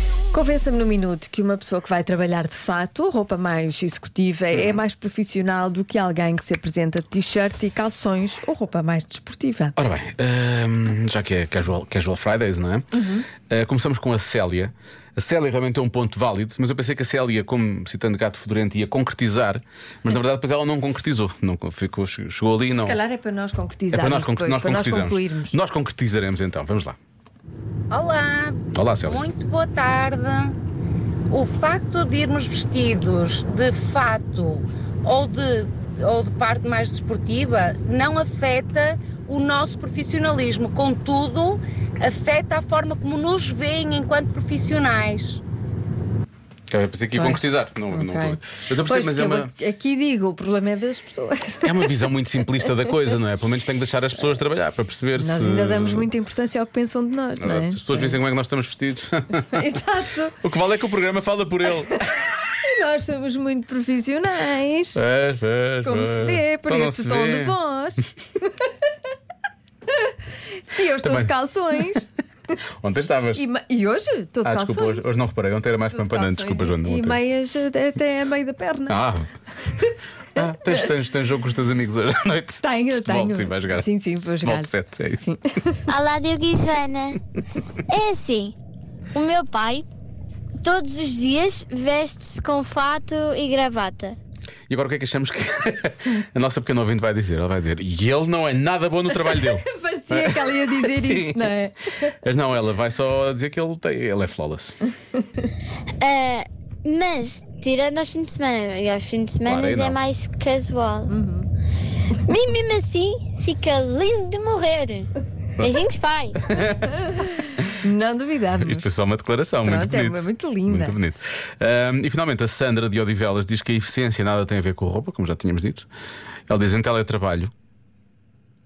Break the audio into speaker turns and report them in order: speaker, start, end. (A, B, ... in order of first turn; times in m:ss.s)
0:00.3-0:09.8 A
0:04.5-0:04.8 B
0:09.8-0:23.0 B
0:13.0-0:13.3 A
0:22.7-0:25.6 A
0:23.9-0:27.0 B
0:27.9-0:30.6 C
0:28.7-0:29.2 B
0:31.3-0:45.4 C
0:46.7-0:49.5 B
0:47.1-0:51.9 A
0:51.6-0:56.1 B
0:55.2-0:58.2 A
0:57.4-0:59.8 B
0:59.5-1:00.4 A
1:00.4-1:02.0 B
1:02.6-1:05.0 A
1:05.0-1:07.6 B
1:05.8-1:08.0 A
1:10.7-1:12.1 A
1:11.0-1:11.3 B
1:12.8-1:13.4 B
1:13.4-1:15.0 A
1:14.4-1:17.2 B
1:15.9-1:19.0 A
1:18.9-1:19.3 B
1:20.4-1:23.9 B
1:22.6-1:25.9 A
1:24.4-1:25.3 B
1:25.9-1:27.1 D
1:27.9-1:28.5 D
1:29.2-1:29.8 D
1:30.6-1:34.2 D
1:34.7-1:41.6 B
1:39.7-1:41.8 A
1:42.2-1:44.8 B
1:46.0-1:51.1 D
1:49.4-1:50.0 B
1:51.1-1:51.5 A
1:52.3-1:55.1 D
1:55.6-1:56.3 D
1:56.4-1:57.1 B
1:57.8-1:58.9 A
1:58.6-2:05.9 B
1:59.6-2:01.0 A
2:06.5-2:07.5 B